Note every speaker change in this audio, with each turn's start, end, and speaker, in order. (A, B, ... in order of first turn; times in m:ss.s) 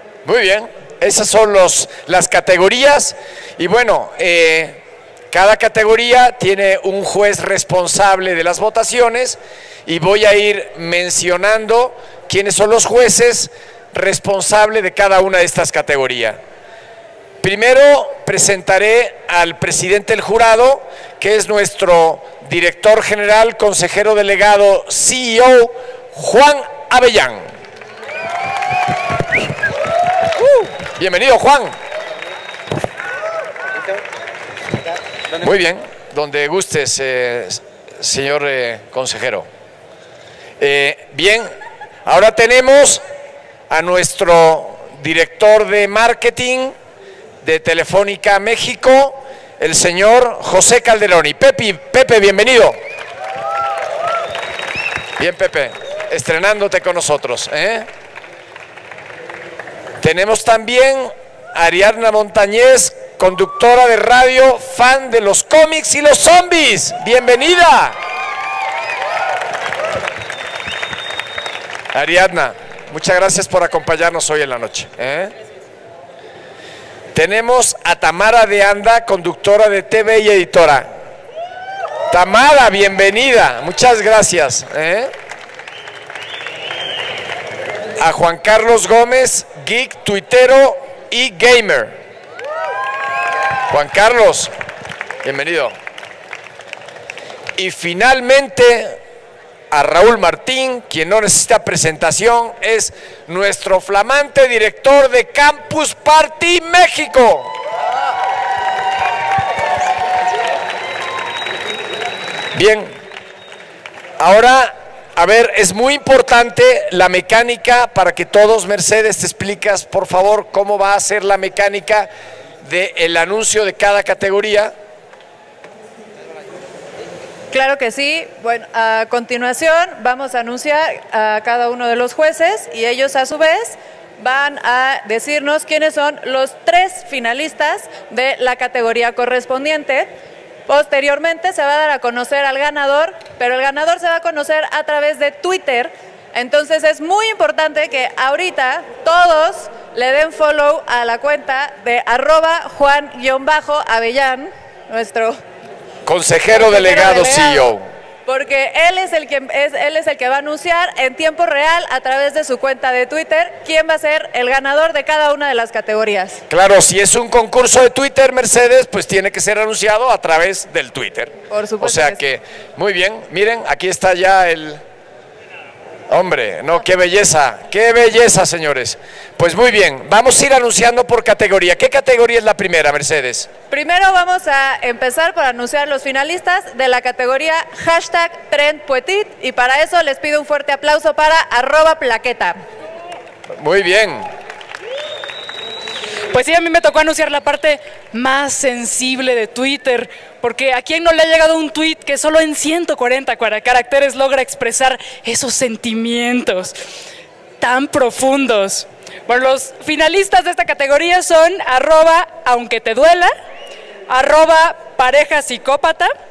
0:00.2-0:04.8 A
0:05.3-0:16.4 A
0:17.4-0:27.4 A
0:30.9-0:31.7 A
0:35.4-0:39.5 A
0:40.6-0:41.5 A
0:42.0-0:43.0 A
0:43.7-0:46.7 A
0:47.4-0:52.8 A
0:55.2-0:57.9 A
1:00.0-1:08.0 A
1:11.9-1:15.3 A
1:17.1-1:20.9 A
1:22.1-1:25.1 A
1:28.0-1:32.0 A
1:33.7-1:34.5 A
1:35.2-1:35.7 A
1:37.6-1:39.0 A
1:39.7-1:47.5 A
1:52.6-1:52.9 A
1:54.2-2:02.1 A
2:02.6-2:04.7 A
2:07.5-2:20.1 B
2:20.7-2:35.4 B
2:36.0-2:37.8 A
2:36.6-2:37.7 B
2:38.3-2:46.4 B
2:46.5-2:54.8 A
2:51.5-2:52.2 B
2:56.1-3:03.5 A
3:03.7-3:12.6 B
3:13.5-3:14.3 A
3:16.3-3:26.7 C
3:27.6-3:33.3 C
3:34.1-3:36.1 C